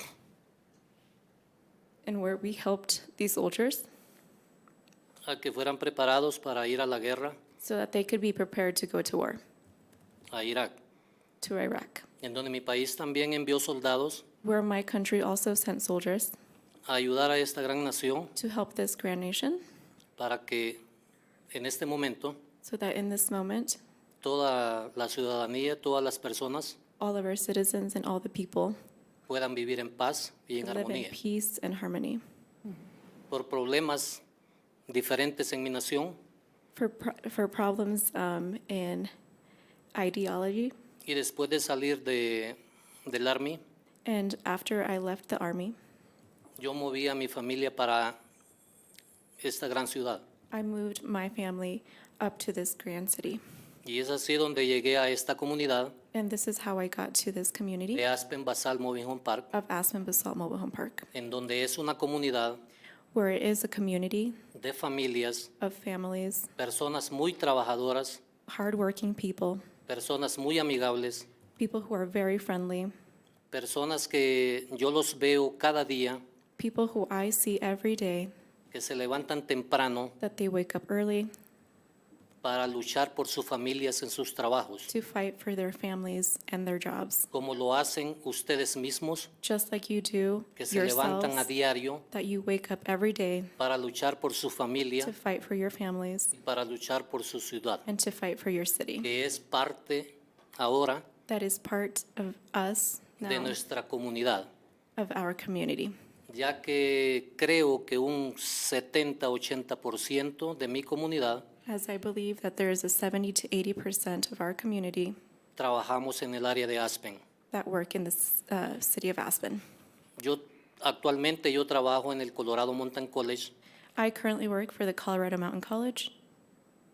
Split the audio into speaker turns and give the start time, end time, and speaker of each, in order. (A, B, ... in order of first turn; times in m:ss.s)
0:02.0-0:03.9 A
0:05.2-0:07.4 B
0:07.6-0:09.4 A
0:10.3-0:10.8 B
0:11.4-0:12.0 A
0:12.2-0:14.2 B
0:14.4-0:16.3 A
0:16.9-0:18.3 B
0:18.4-0:19.6 A
0:20.2-0:20.8 B
0:21.5-0:22.4 B
0:22.6-0:23.8 A
0:24.2-0:26.8 B
0:27.0-0:28.8 A
0:29.3-0:31.2 B
0:30.6-0:32.2 A
0:33.3-0:34.2 B
0:34.9-0:36.2 B
0:36.7-0:39.1 A
0:40.0-0:40.7 A
0:41.0-0:43.6 B
0:44.0-0:45.8 A
0:46.6-0:48.2 B
0:49.4-0:50.2 B
0:50.5-0:53.4 A
0:53.8-0:56.0 B
0:56.1-0:58.0 A
0:57.9-0:59.5 B
0:59.5-1:01.1 A
1:01.1-1:02.6 B
1:03.1-1:04.3 A
1:04.6-1:05.5 B
1:05.6-1:06.5 A
1:06.6-1:08.2 B
1:08.5-1:09.6 A
1:09.9-1:11.3 B
1:11.6-1:12.9 A
1:13.5-1:16.2 B
1:16.6-1:18.3 A
1:18.7-1:20.2 B
1:20.2-1:21.3 A
1:22.4-1:24.9 B
1:24.9-1:27.3 A
1:27.3-1:29.3 B
1:29.4-1:31.5 A
1:30.6-1:32.0 B
1:32.1-1:33.5 A
1:33.6-1:35.1 B
1:35.0-1:36.3 A
1:36.3-1:37.8 B
1:37.8-1:39.1 A
1:39.0-1:41.0 B
1:41.3-1:43.6 A
1:43.2-1:44.5 B
1:45.0-1:45.9 A
1:46.3-1:51.5 B
1:51.7-1:55.2 A
1:55.6-1:57.2 B
1:57.5-1:59.6 A
2:00.2-2:03.5 B
2:04.0-2:06.1 A